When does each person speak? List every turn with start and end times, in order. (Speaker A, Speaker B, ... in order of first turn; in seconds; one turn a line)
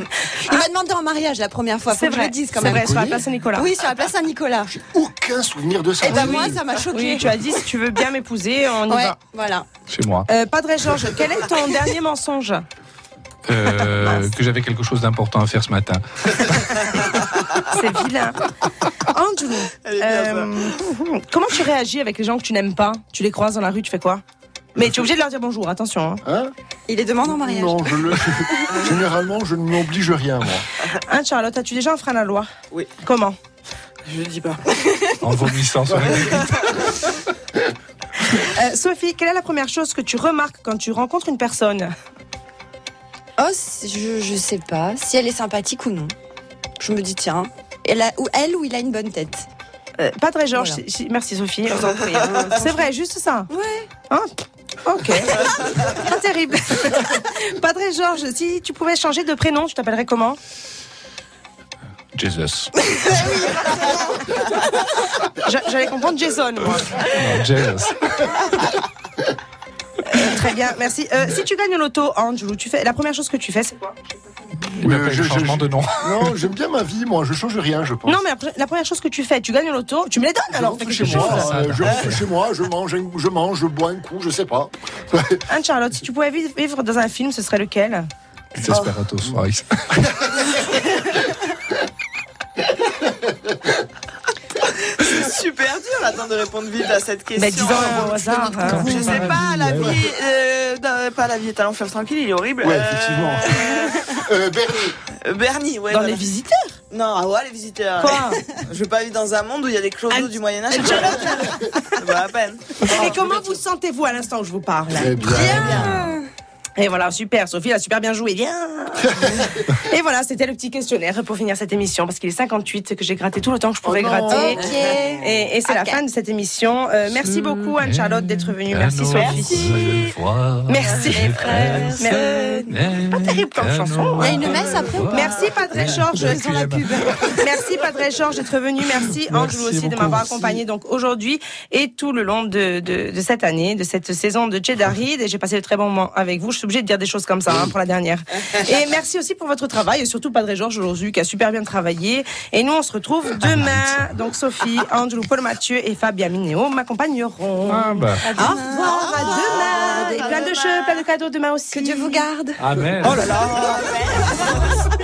Speaker A: 0.2-4.8
Speaker B: 1.9-3.7
Speaker C: 2.6-3.2
Speaker C: 4.7-6.6
Speaker A: 6.0-7.3
Speaker B: 6.1-9.2
Speaker A: 8.9-9.7
Speaker D: 9.9-10.3
Speaker B: 10.3-12.7
Speaker D: 13.5-16.8
Speaker B: 17.7-18.5
Speaker B: 19.1-24.2
Speaker E: 19.8-20.7
Speaker B: 24.8-26.2
Speaker C: 26.2-26.5
Speaker A: 26.9-28.9
Speaker C: 27.3-30.7
Speaker B: 31.1-32.5
Speaker B: 33.0-33.4
Speaker E: 34.1-34.9
Speaker D: 35.2-36.5
Speaker C: 35.9-36.5
Speaker E: 36.2-36.7
Speaker B: 38.3-41.9
Speaker A: 43.4-46.1
Speaker A: 46.8-49.5
Speaker B: 50.0-53.5
Speaker A: 50.5-50.8
Speaker E: 52.1-52.5
Speaker A: 53.5-53.9
Speaker B: 54.9-60.4
Speaker D: 62.1-62.7
Speaker A: 63.0-64.2
Speaker B: 65.4-67.2
Speaker D: 67.0-68.3
Speaker B: 70.0-73.9
Speaker D: 74.7-76.3
Speaker C: 74.8-78.2
Speaker B: 78.1-81.5
Speaker C: 80.5-85.4
Speaker D: 81.0-82.2
Speaker B: 85.5-88.1
Speaker D: 88.6-90.0
Speaker E: 94.8-104.1
Speaker B: 97.4-99.3
Speaker D: 98.6-100.0
Speaker C: 102.6-105.0
Speaker E: 105.2-106.2
Speaker B: 105.9-106.8
Speaker E: 106.9-112.9
Speaker B: 108.0-108.4
Speaker B: 110.1-111.6
Speaker B: 112.8-115.1
Speaker C: 114.9-116.1
Speaker A: 115.2-116.3
Speaker E: 115.4-115.9
Speaker B: 116.8-130.2
Speaker C: 123.8-125.1
Speaker A: 124.3-126.0
Speaker D: 127.2-137.1
Speaker E: 129.1-129.6
Speaker A: 129.5-130.0
Speaker B: 130.7-131.4
Speaker A: 130.9-132.8
Speaker B: 131.9-136.4
Speaker A: 134.2-137.4
Speaker B: 137.4-162.3
Speaker D: 139.0-140.6
Speaker D: 153.4-154.1
Speaker D: 157.7-158.5
Speaker A: 158.2-160.5
Speaker E: 158.9-161.0
Speaker A: 161.7-163.5
Speaker D: 162.6-163.3
Speaker E: 163.0-164.8